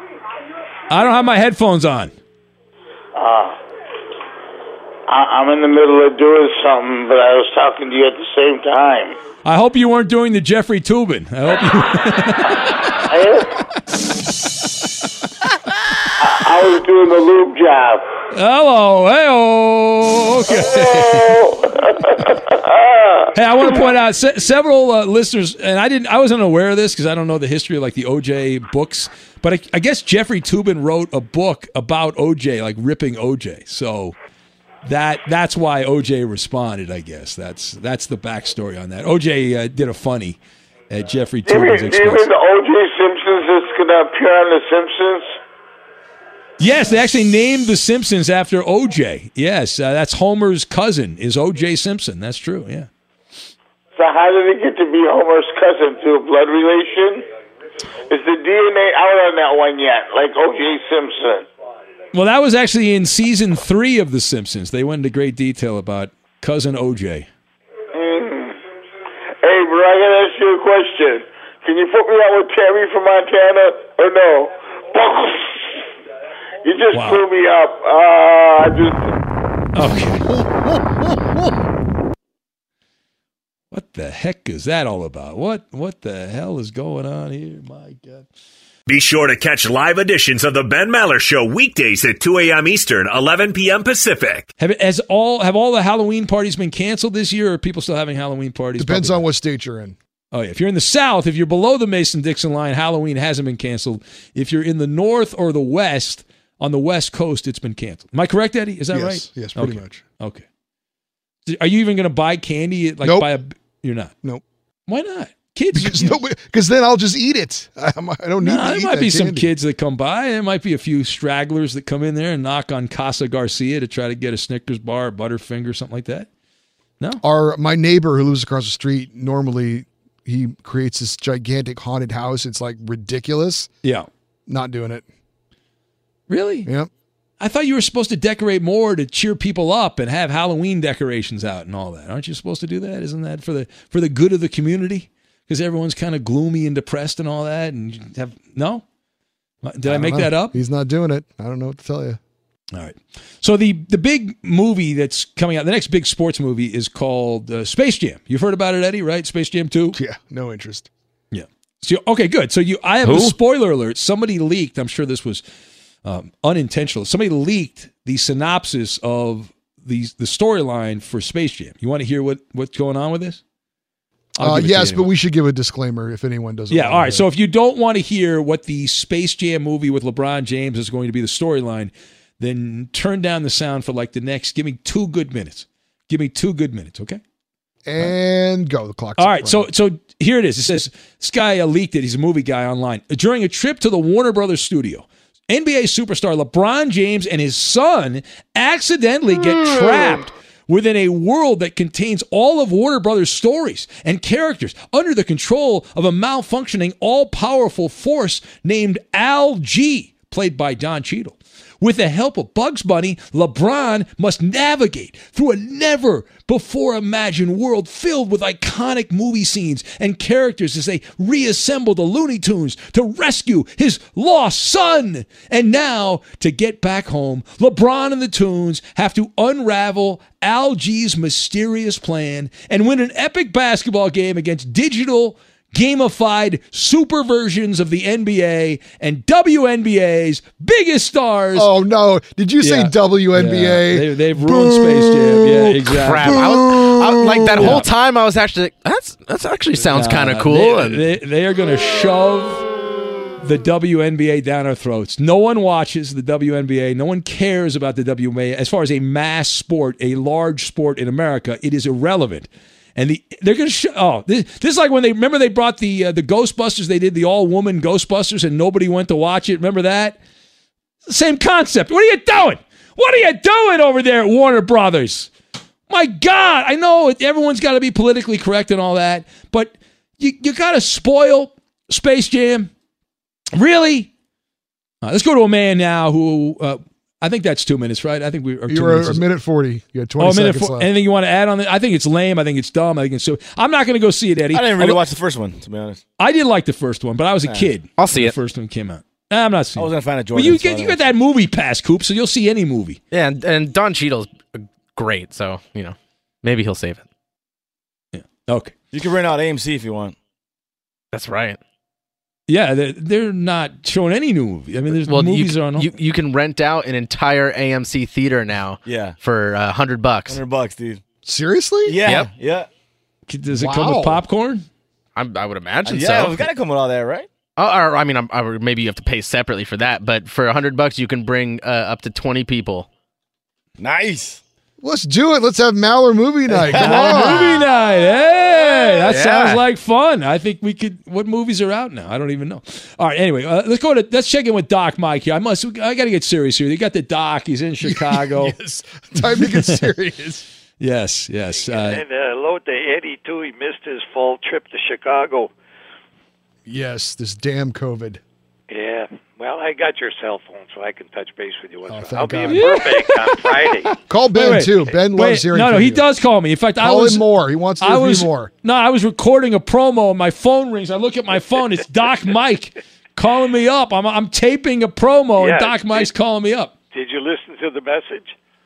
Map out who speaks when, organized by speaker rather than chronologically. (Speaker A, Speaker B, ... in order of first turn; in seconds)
Speaker A: 0.9-2.1, 9.4-12.8, 18.3-21.4, 23.4-34.2, 34.8-40.4, 40.9-42.3, 46.6-52.9, 62.1-67.3, 76.9-77.2, 79.7-80.3, 83.7-88.3, 94.6-99.3, 100.3-110.5, 111.5-114.2, 114.9-116.2, 118.4-126.3, 133.8-134.1, 136.3-136.7, 137.4-148.8, 149.6-150.6, 152.7-160.0, 161.3-165.4, 166.0-173.4, 174.4-175.1, 176.7-187.2, 189.2-241.7, 242.6-246.4, 247.6-247.9, 249.8-252.7, 253.4-270.2, 271.1-275.3, 275.9-282.7, 283.5-284.1, 285.0-289.3, 290.2-295.1, 296.2-303.0, 308.1-308.7, 312.5-315.9, 323.3-324.7, 336.7-348.6, 349.4-349.9, 350.8-352.0, 362.5-367.3, 367.8-376.7
Speaker B: 3.1-3.6, 5.1-9.2, 13.1-13.5, 16.2-18.1, 20.5-23.8, 41.5-45.3, 54.0-57.2, 58.1-61.5, 67.9-68.6, 69.4-75.7, 76.6-79.1
Speaker C: 88.9-94.5
Speaker D: 98.8-100.0, 108.9-110.0, 113.0-113.3, 115.7-119.5, 127.2-133.7, 134.5-135.1, 149.9-152.2, 159.9-160.9, 174.4-177.2, 187.9-189.7, 241.5-247.8, 288.7-290.9, 321.2-322.2, 323.5-324.2, 334.8-337.7, 347.8-350.4, 356.7-358.2, 361.9-362.8, 364.1-366.1, 366.8-368.5
Speaker E: 163.1-163.3, 294.5-296.0, 297.5-297.8, 299.8-301.1, 308.9-310.2, 318.8-319.2, 320.3-321.0, 321.9-322.7, 325.9-327.3, 333.8-334.4, 336.5-337.3, 339.0-339.6
Speaker F: 245.9-251.1, 298.0-298.4, 303.1-307.1, 311.1-311.6, 314.9-320.4, 325.1-326.5, 327.6-332.9
Speaker G: 351.6-355.5, 358.7-363.9, 375.4-376.1, 376.9-378.4